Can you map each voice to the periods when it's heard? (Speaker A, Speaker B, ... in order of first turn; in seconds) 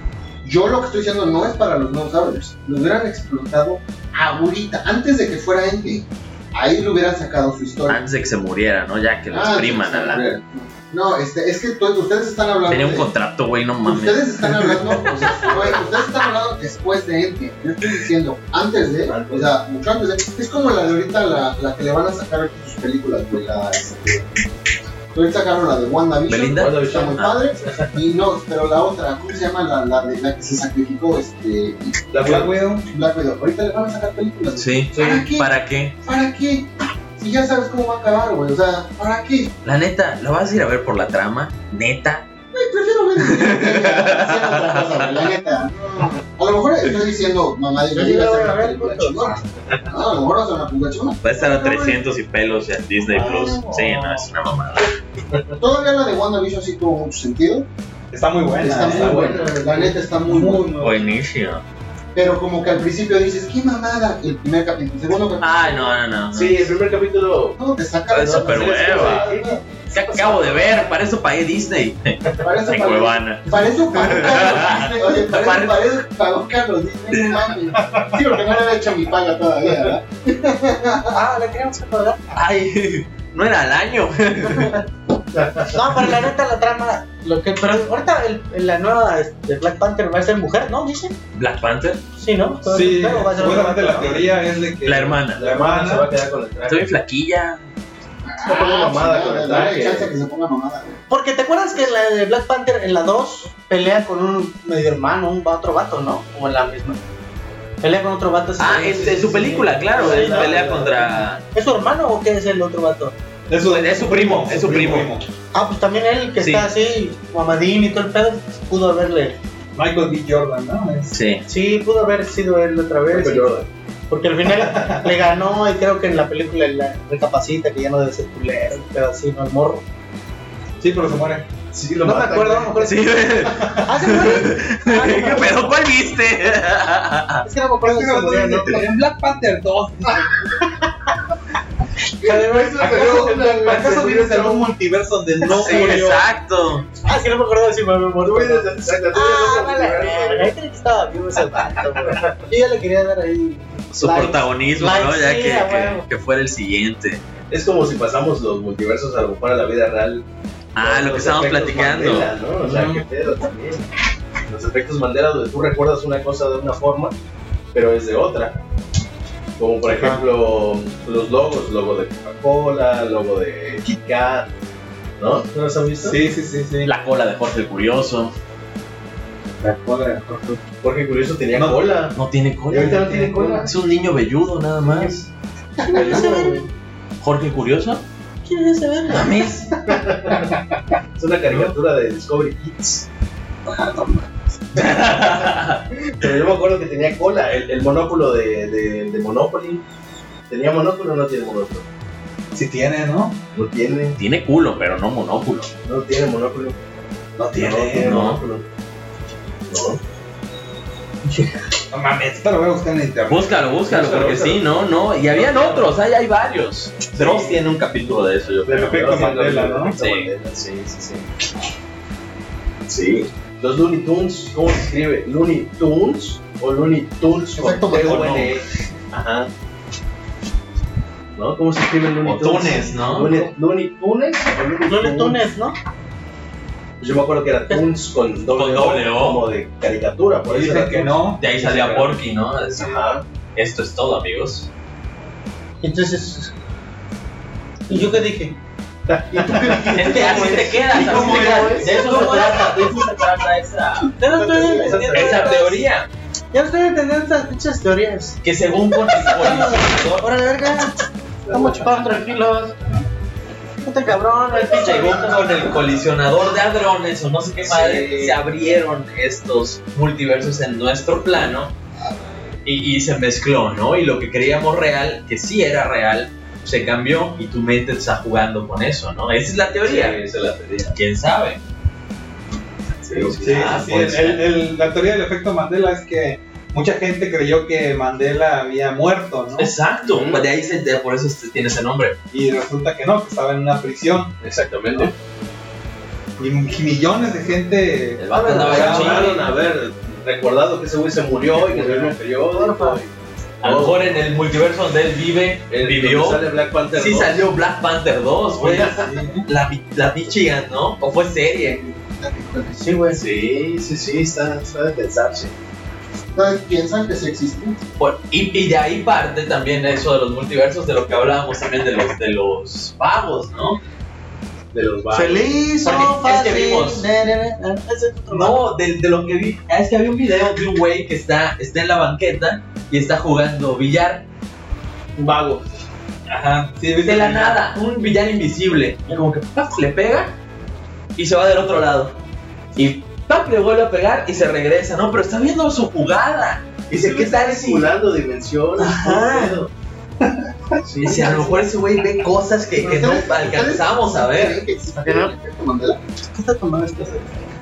Speaker A: 0.4-8.0, 9.3-13.1, 13.8-24.3, 25.1-32.0, 32.9-35.5, 36.0-39.5, 42.5-52.0, 53.2-53.6, 55.6-57.7, 58.6-60.8, 62.1-66.0, 67.6-70.9, 72.4-81.2, 98.2-101.0, 185.8-186.6, 227.6-228.4, 254.5-255.0, 311.7-313.0, 316.3-317.8, 352.8-356.0
Speaker B: 7.9-10.3, 12.7-15.8, 26.3-27.4, 34.6-36.0, 39.6-42.3, 43.2-45.3, 51.2-54.9, 60.8-61.6, 65.4-66.8, 68.1-69.3, 69.9-75.8, 77.1-77.5, 82.3-84.8, 91.3-92.0, 94.8-95.5, 96.7-97.7, 108.6-111.4, 113.6-115.1, 116.4-116.7, 121.1-121.4, 132.8-137.4, 145.5-146.9, 153.9-157.2, 160.8-162.3, 176.8-178.3, 182.2-183.1, 183.6-185.3, 185.9-186.5, 187.2-188.1, 189.1-189.7, 194.7-195.9, 204.2-205.7, 207.9-208.4, 213.3-219.3, 219.9-220.3, 227.9-228.5, 232.2-233.5, 238.5-239.4, 241.4-244.7, 249.9-254.2, 255.1-256.1, 258.4-260.4, 264.6-271.7, 272.6-280.2, 280.9-281.6, 283.1-284.4, 289.6-292.2, 298.2-299.5, 303.6-311.8, 318.0-323.8, 325.8-327.1, 328.3-334.2, 336.3-340.3, 341.2-342.2, 342.8-347.9, 348.8-349.6, 351.0-354.6
Speaker C: 19.1-19.5, 26.5-28.0, 32.1-32.5, 34.9-35.3, 58.8-59.9, 66.3-67.6, 68.2-69.6, 95.3-96.9, 98.4-100.1, 110.0-110.9, 123.1-123.7, 131.7-132.9, 142.2-144.7, 148.2-150.6, 151.6-152.4, 157.5-160.2, 160.8-163.9, 164.5-167.1, 167.7-168.6, 169.6-174.5, 175.2-176.2, 180.8-182.2, 182.7-183.7, 184.8-185.2, 185.9-186.6, 189.9-190.6, 191.2-193.1, 194.8-195.1, 196.0-199.8, 200.5-201.8, 203.5-204.2, 205.8-206.8, 207.4-208.7, 209.7-210.0, 213.9-214.7, 215.3-215.9, 218.8-221.3, 222.9-229.5, 231.4-235.5, 237.0-242.2, 242.8-243.2, 249.1-252.3, 254.4-255.6, 261.5-262.1, 267.6-268.4, 279.8-281.0, 283.0-283.9, 290.0-290.5, 294.4-295.1, 298.5-304.2, 305.7-307.5, 308.6-309.2, 313.1-315.5, 324.7-325.6, 335.2-335.6, 346.9-349.7, 350.9-351.5
Speaker D: 32.2-32.9, 58.1-61.1, 92.7-96.1, 110.3-110.6, 113.5-115.2, 119.8-121.2, 124.5-125.1, 130.8-131.5, 137.8-140.3, 142.8-146.2, 162.6-163.0, 176.0-176.9, 179.6-180.6, 181.5-182.1, 182.7-183.7, 202.5-203.4, 207.4-208.2, 211.9-213.7, 217.2-217.6, 218.7-219.9, 240.5-241.4, 250.9-251.8, 283.4-289.7, 292.3-294.4, 296.4-299.4, 301.6-302.1, 308.7-309.4, 336.8-337.6
Speaker E: 47.9-49.4, 53.2-54.1, 81.1-82.2, 84.5-84.8, 85.7-91.2, 92.2-94.3, 101.1-107.0, 107.8-113.2, 115.5-119.4, 121.5-123.5, 124.1-129.8, 132.0-133.3, 133.8-135.7, 137.4-138.9, 140.5-140.8, 142.2-143.4, 145.4-146.2, 147.0-156.1, 169.9-170.2, 185.9-186.7, 188.4-189.5, 234.9-235.8, 245.8-246.5, 247.9-248.6, 249.4-252.9, 254.2-255.8, 256.5-258.4, 259.1-261.0, 261.5-262.8, 263.8-265.7, 302.5-303.0, 312.8-313.2, 325.1-328.6, 355.0-355.3, 356.3-357.5